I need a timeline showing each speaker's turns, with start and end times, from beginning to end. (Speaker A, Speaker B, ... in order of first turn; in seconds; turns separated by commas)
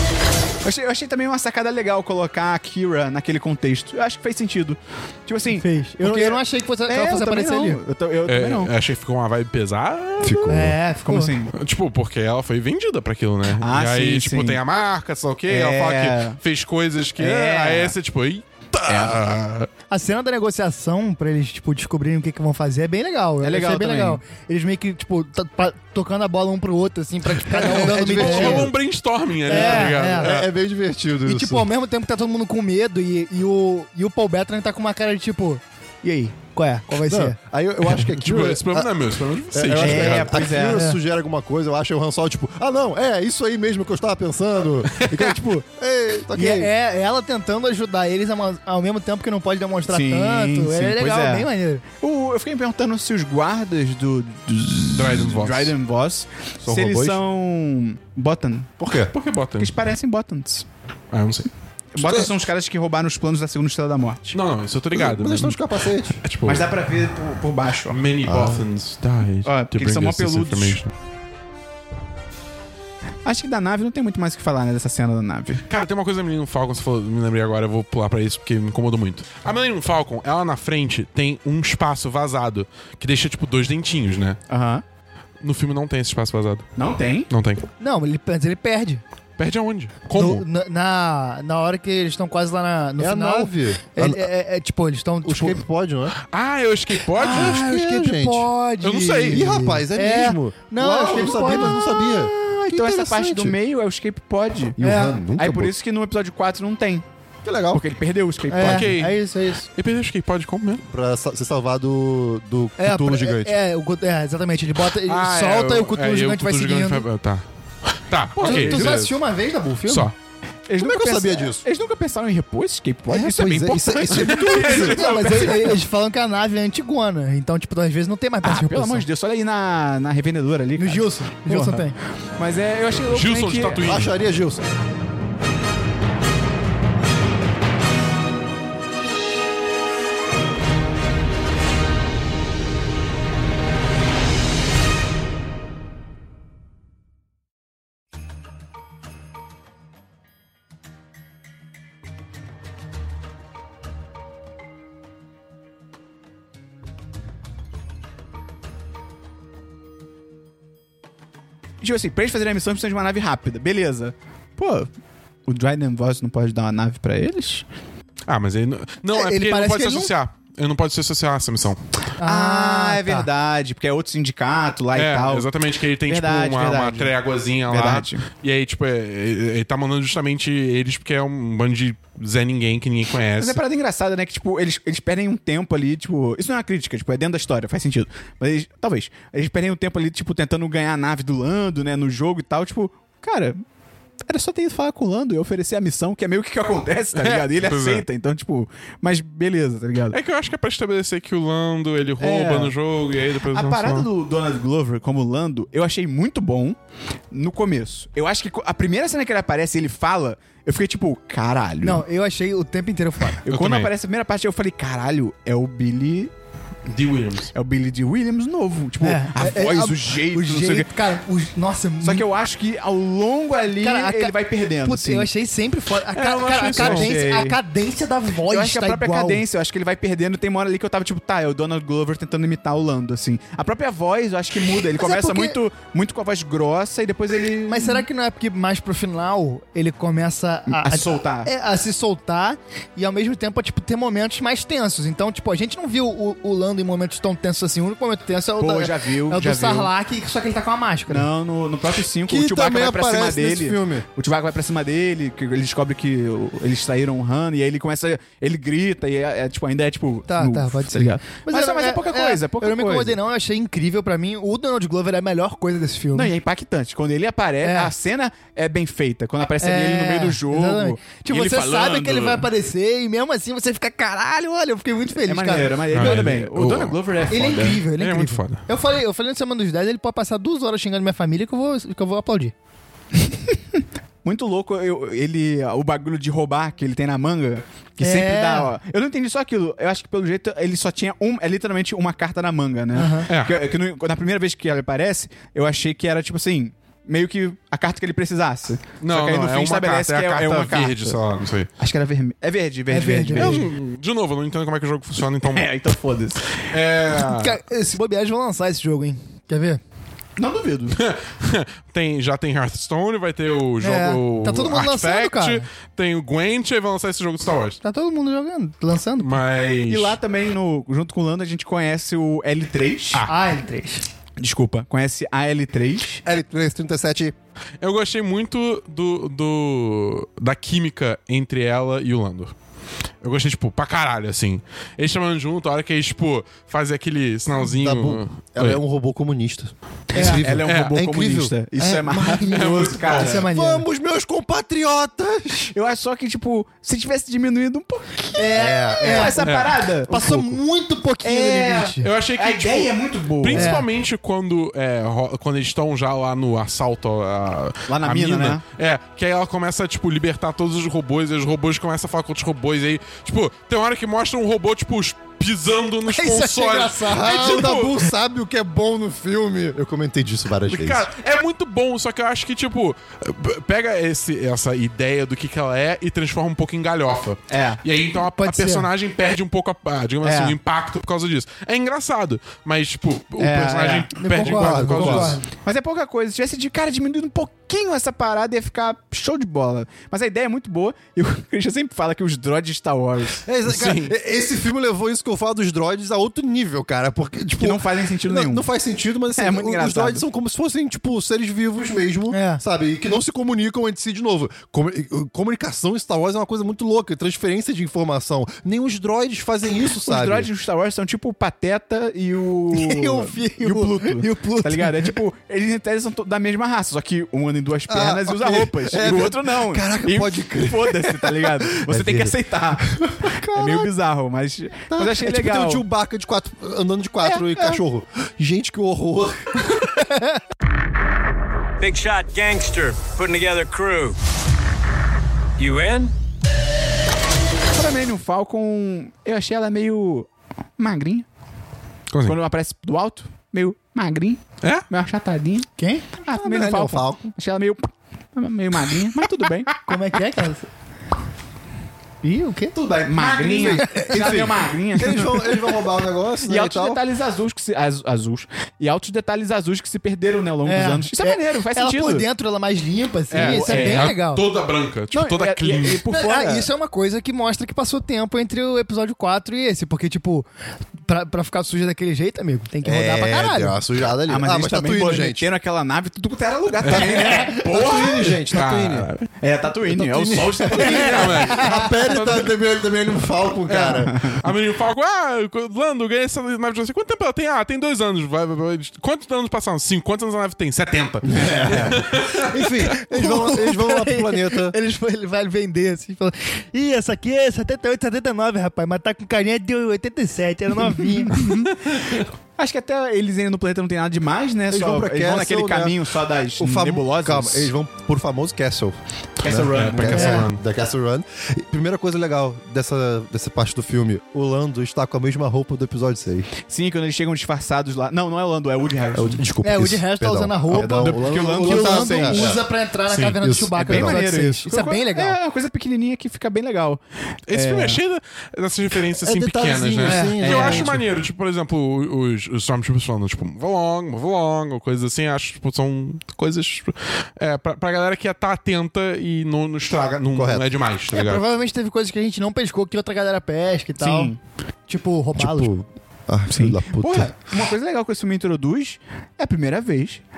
Speaker A: 0.6-8.7, Speaker B: 5.5-7.8, Speaker C: 8.3-10.6, Speaker D: 10.2-10.8, Speaker B: 10.5-11.3, Speaker A: 11.1-11.5, Speaker C: 11.5-19.7, Speaker A: 13.5-14.6, Speaker A: 15.5-16.4, Speaker A: 17.2-17.9, Speaker A: 18.9-19.2, Speaker B: 19.9-28.7, Speaker A: 23.4-24.2, Speaker D: 27.5-28.8, Speaker C: 27.5-30.5, Speaker B: 29.5-30.4, Speaker D: 29.5-31.7, Speaker B: 31.2-37.4, Speaker D: 37.1-38.9, Speaker C: 37.9-40.5, Speaker D: 39.5-46.7, Speaker A: 39.8-40.9, Speaker B: 40.7-41.0, Speaker C: 45.0-45.3, Speaker B: 46.3-51.8, Speaker A: 49.9-51.5, Speaker A: 52.0-58.7, Speaker C: 54.9-55.8, Speaker D: 56.6-57.2, Speaker D: 58.8-59.1, Speaker C: 59.1-59.8, Speaker A: 59.6-60.7, Speaker C: 61.1-61.5, Speaker A: 62.0-64.3, Speaker D: 62.0-62.3, Speaker C: 64.3-65.6, Speaker D: 64.9-66.2, Speaker C: 66.2-66.7, Speaker A: 66.5-68.0, Speaker C: 67.9-70.9, Speaker D: 68.3-68.6, Speaker A: 69.5-70.8, Speaker A: 73.2-75.6, Speaker C: 75.7-84.4, Speaker A: 84.5-84.8, Speaker C: 85.4-86.7, Speaker A: 86.8-87.3, Speaker C: 87.3-87.7, Speaker B: 87.8-89.0, Speaker C: 89.4-90.5, Speaker B: 90.1-95.6, Speaker D: 93.0-94.3, Speaker D: 95.2-96.2, Speaker C: 96.2-97.6, Speaker B: 97.2-101.9, Speaker D: 97.2-98.5, Speaker C: 98.8-99.5, Speaker D: 99.3-103.6, Speaker A: 102.0-104.8, Speaker D: 104.8-105.7, Speaker B: 104.8-105.2, Speaker A: 105.3-107.0, Speaker D: 107.5-107.8, Speaker A: 107.7-108.9, Speaker B: 108.5-109.7, Speaker C: 108.6-109.2, Speaker C: 109.7-110.8, Speaker D: 110.8-113.5, Speaker B: 112.8-117.1, Speaker C: 115.1-117.4, Speaker C: 118.0-119.1, Speaker A: 118.4-119.1, Speaker B: 118.4-120.1, Speaker C: 119.9-120.2, Speaker A: 120.7-125.8, Speaker D: 120.8-121.6, Speaker D: 123.1-125.1, Speaker C: 124.3-125.0, Speaker B: 124.7-129.1, Speaker A: 128.4-133.9, Speaker B: 130.8-132.0, Speaker C: 133.0-134.1, Speaker D: 133.8-134.7, Speaker A: 161.8-164.9, Speaker A: 165.5-167.7, Speaker C: 168.3-171.8, Speaker B: 169.1-170.1, Speaker B: 172.2-173.3, Speaker A: 172.2-175.5, Speaker C: 174.9-183.6, Speaker A: 176.1-177.1, Speaker A: 177.7-178.3, Speaker A: 183.4-193.6, Speaker A: 194.3-200.2, Speaker C: 197.2-198.1, Speaker C: 200.1-204.1, Speaker A: 202.2-202.7, Speaker A: 203.5-206.8, Speaker A: 207.3-212.0, Speaker B: 211.8-213.4, Speaker A: 213.4-216.3, Speaker C: 213.5-213.9, Speaker C: 216.9-217.5, Speaker A: 217.5-220.9, Speaker B: 219.0-222.3, Speaker A: 222.0-225.3, Speaker B: 223.8-229.4, Speaker C: 226.1-227.2, Speaker A: 226.7-227.6, Speaker A: 228.4-238.1, Speaker B: 234.9-235.6, Speaker B: 237.7-251.3, Speaker A: 240.7-241.5, Speaker A: 248.6-249.9, Speaker A: 251.1-263.2, Speaker D: 252.3-254.1, Speaker B: 260.3-266.3, Speaker A: 266.1-272.5, Speaker B: 267.6-267.9, Speaker B: 269.6-276.1, Speaker A: 275.2-277.9, Speaker C: 275.9-277.2, Speaker B: 277.3-282.5, Speaker C: 278.0-278.6, Speaker A: 283.2-301.2, Speaker B: 288.0-288.7, Speaker B: 292.9-293.3, Speaker C: 293.3-293.6, Speaker C: 299.0-301.7, Speaker A: 301.8-303.7, Speaker B: 302.9-303.7, Speaker C: 303.4-305.7, Speaker A: 305.4-306.6, Speaker C: 306.7-307.6, Speaker B: 307.2-309.8, Speaker A: 310.4-311.0, Speaker C: 310.9-317.8, Speaker B: 313.8-315.7, Speaker B: 317.8-319.4, Speaker C: 319.2-320.2, Speaker A: 319.9-323.2, Speaker B: 323.3-324.1, Speaker A: 324.4-326.2, Speaker D: 326.2-327.3, Speaker C: 327.8-332.5, Speaker C: 333.2-338.8, Speaker D: 337.6-345.7, Speaker A: 340.1-343.5, Speaker B: 340.2-340.4, Speaker C: 340.7-341.0, Speaker C: 342.5-343.4, Speaker B: 343.1-343.9, Speaker A: 345.7-350.6, Speaker B: 348.4-349.4, Speaker D: 348.5-349.4, Speaker C: 349.4-349.8, Speaker B: 350.1-352.1, Speaker A: 351.2-353.8, Speaker C: 352.0-368.1, Speaker B: 353.5-353.9, Speaker A: 357.9-358.6, Speaker B: 366.1-367.5, Speaker D: 367.1-371.1, Speaker C: 370.7-385.4, Speaker A: 377.5-377.8, Speaker B: 378.3-378.9, Speaker A: 380.2-380.6, Speaker A: 383.4-384.1, Speaker B: 384.2-385.5, Speaker D: 384.5-385.4, Speaker A: 385.6-393.4, Speaker D: 393.5-410.5, Speaker C: 393.7-394.1, Speaker A: 397.6-398.7, Speaker A: 399.4-400.2, Speaker B: 402.3-402.6, Speaker A: 410.0-423.0, Speaker B: 412.7-415.1, Speaker D: 417.9-423.9, Speaker A: 423.5-425.8, Speaker D: 424.9-429.6, Speaker A: 427.2-427.8, Speaker B: 430.0-430.4, Speaker E: 431.8-434.2, Speaker E: 435.6-436.1, Speaker A: 437.8-441.2, Speaker C: 442.1-442.4, Speaker A: 442.2-445.7, Speaker C: 444.6-444.9, Speaker B: 445.8-446.1, Speaker A: 446.2-449.8, Speaker D: 446.3-447.4, Speaker B: 449.9-450.7, Speaker B: 452.2-452.8, Speaker A: 452.8-455.8, Speaker C: 453.2-453.7, Speaker D: 453.3-457.0, Speaker B: 453.8-454.2, Speaker A: 456.4-462.3, Speaker B: 460.6-464.4, Speaker C: 463.3-466.0, Speaker A: 463.4-464.1, Speaker A: 465.1-466.7, Speaker B: 466.1-470.4, Speaker B: 471.1-473.8, Speaker D: 472.8-475.5, Speaker A: 474.3-478.4, Speaker C: 476.8-477.2, Speaker D: 476.9-479.1, Speaker C: 478.5-479.3, Speaker A: 479.4-482.4, Speaker D: 479.9-484.2, Speaker B: 480.8-482.1, Speaker C: 480.9-481.8, Speaker C: 483.7-492.9, Speaker A: 483.7-484.4, Speaker D: 491.2-494.8, Speaker A: 491.4-491.9, Speaker B: 493.0-501.4, Speaker A: 501.1-501.7, Speaker C: 501.4-502.3, Speaker A: 502.6-507.7, Speaker D: 504.7-516.5, Speaker A: 509.4-510.4, Speaker C: 509.5-510.6, Speaker B: 510.1-510.4, Speaker A: 516.7-519.4, Speaker D: 519.1-522.6, Speaker B: 519.6-525.4, Speaker A: 520.7-522.5, Speaker C: 523.1-523.4, Speaker D: 523.4-524.2, Speaker A: 523.8-528.0, Speaker C: 527.5-541.4, Speaker D: 529.2-531.0, Speaker B: 530.0-530.6, Speaker A: 530.5-530.8, Speaker D: 540.3-540.7, Speaker B: 541.1-544.3, Speaker A: 544.0-544.4, Speaker B: 544.9-545.7, Speaker D: 545.4-547.3, Speaker A: 546.5-550.2